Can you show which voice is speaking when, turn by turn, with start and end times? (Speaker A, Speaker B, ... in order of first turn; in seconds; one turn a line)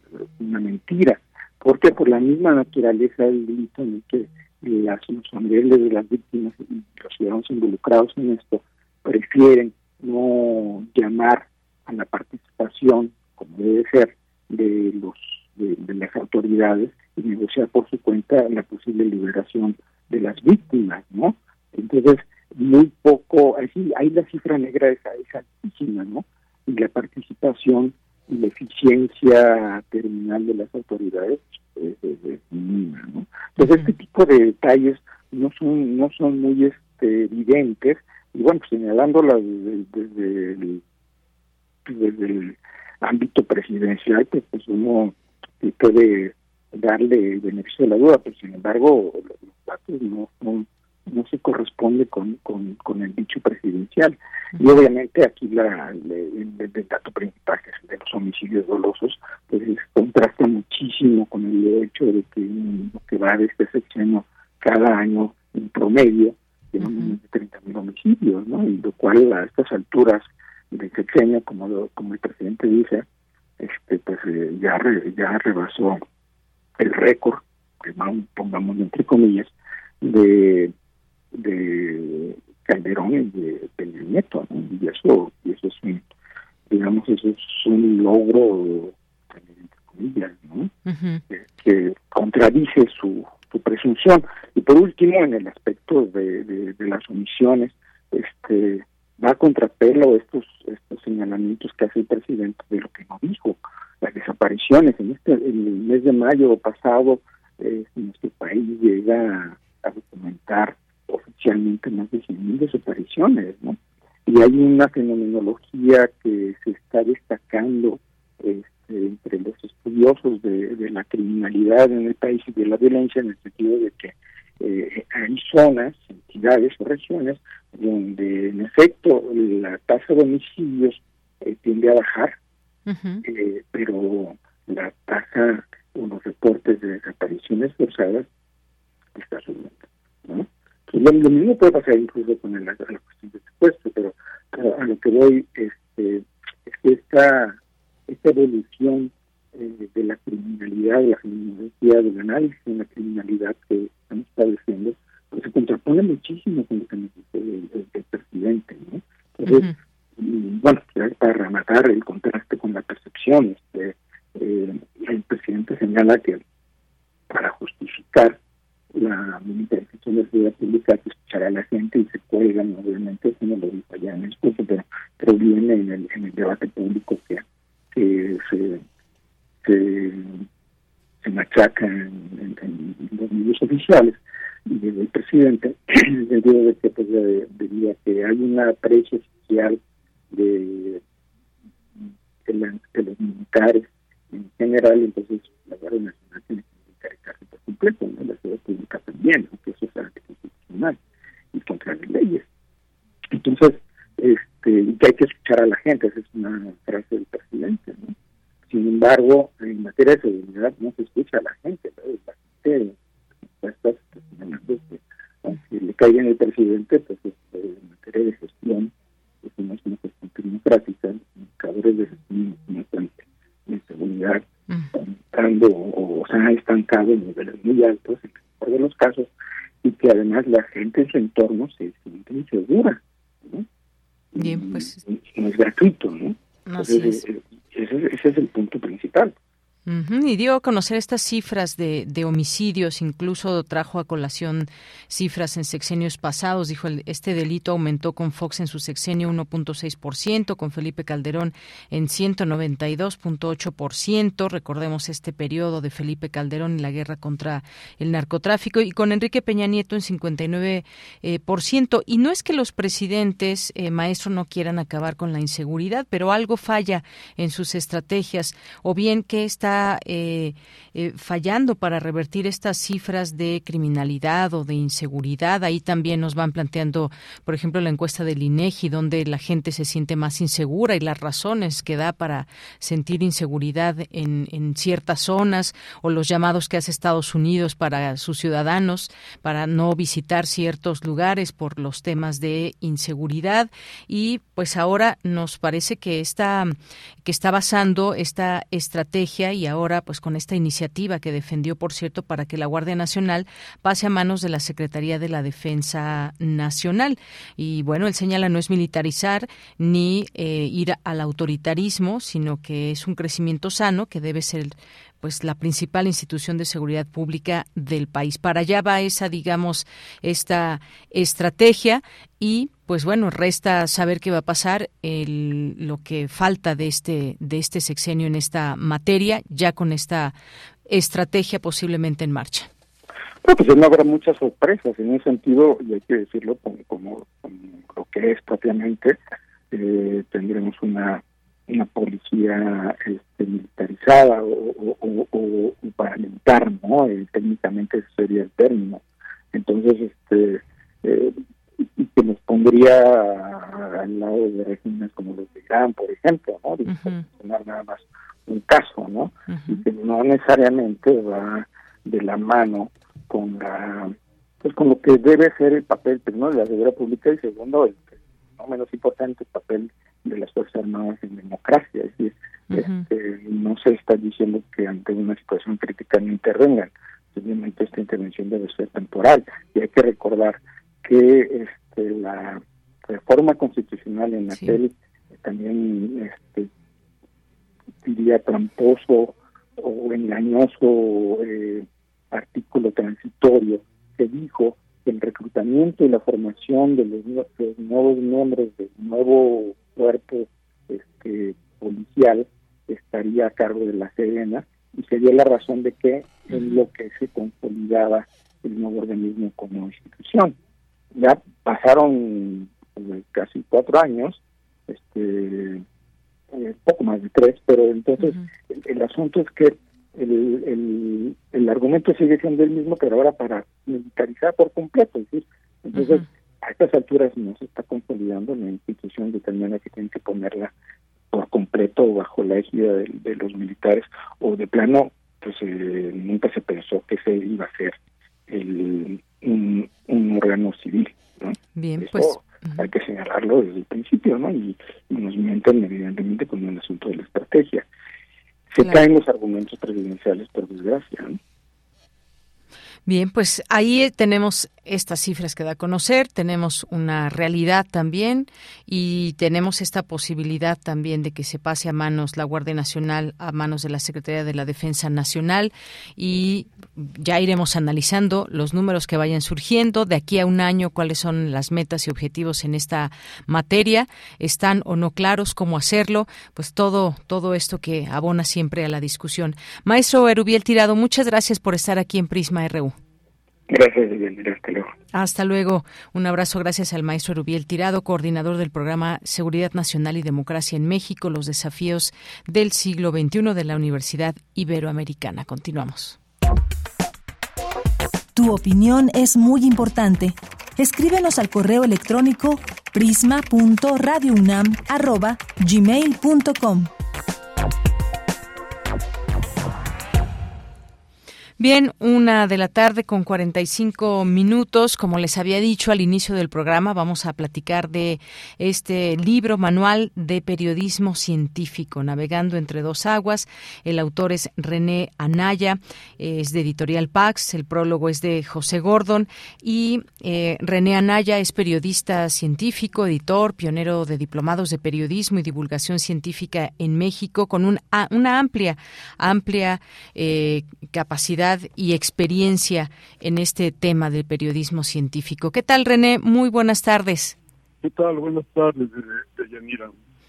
Speaker A: 0.4-40.8
Speaker B: 33.6-33.9
Speaker A: 41.9-73.0
Speaker B: 66.8-67.2
Speaker A: 73.6-76.0
Speaker A: 76.8-79.5
Speaker A: 80.0-80.7
Speaker A: 81.3-86.0
Speaker A: 86.7-90.7
Speaker B: 90.9-91.2
Speaker A: 91.3-132.3
Speaker B: 132.9-133.2
Speaker A: 133.2-138.3
Speaker A: 139.2-147.6
Speaker A: 148.1-166.4
Speaker B: 159.5-159.7
Speaker A: 167.3-168.4
Speaker A: 168.9-177.4
Speaker A: 177.9-178.8
Speaker A: 179.6-180.4
Speaker A: 181.2-189.8
Speaker A: 190.3-191.0
Speaker A: 192.5-201.0
Speaker A: 201.5-202.4
Speaker A: 203.3-208.1
Speaker A: 208.7-212.9
Speaker A: 213.6-218.9
Speaker A: 219.4-224.4
Speaker A: 224.9-229.3
Speaker A: 229.8-233.7
Speaker A: 234.3-239.3
Speaker B: 234.4-235.0
Speaker B: 236.7-237.2
Speaker B: 239.9-330.3
Speaker B: 330.9-332.7
Speaker A: 333.4-339.2
Speaker A: 339.7-349.0
Speaker A: 349.5-386.7
Speaker B: 356.9-357.2
Speaker B: 359.5-359.8
Speaker B: 372.7-373.1
Speaker B: 384.5-384.8
Speaker A: 388.0-410.6
Speaker B: 406.5-406.8
Speaker A: 411.1-415.8
Speaker A: 416.5-430.7
Speaker B: 425.9-426.2
Speaker A: 431.3-438.0
Speaker A: 438.5-447.8
Speaker B: 441.8-442.9
Speaker A: 448.7-451.4
Speaker B: 448.8-449.1
Speaker B: 453.1-483.0
Speaker A: 483.7-484.9
Speaker B: 485.1-496.2
Speaker C: 498.4-506.9
Speaker B: 511.6-547.4
Speaker D: 547.8-549.9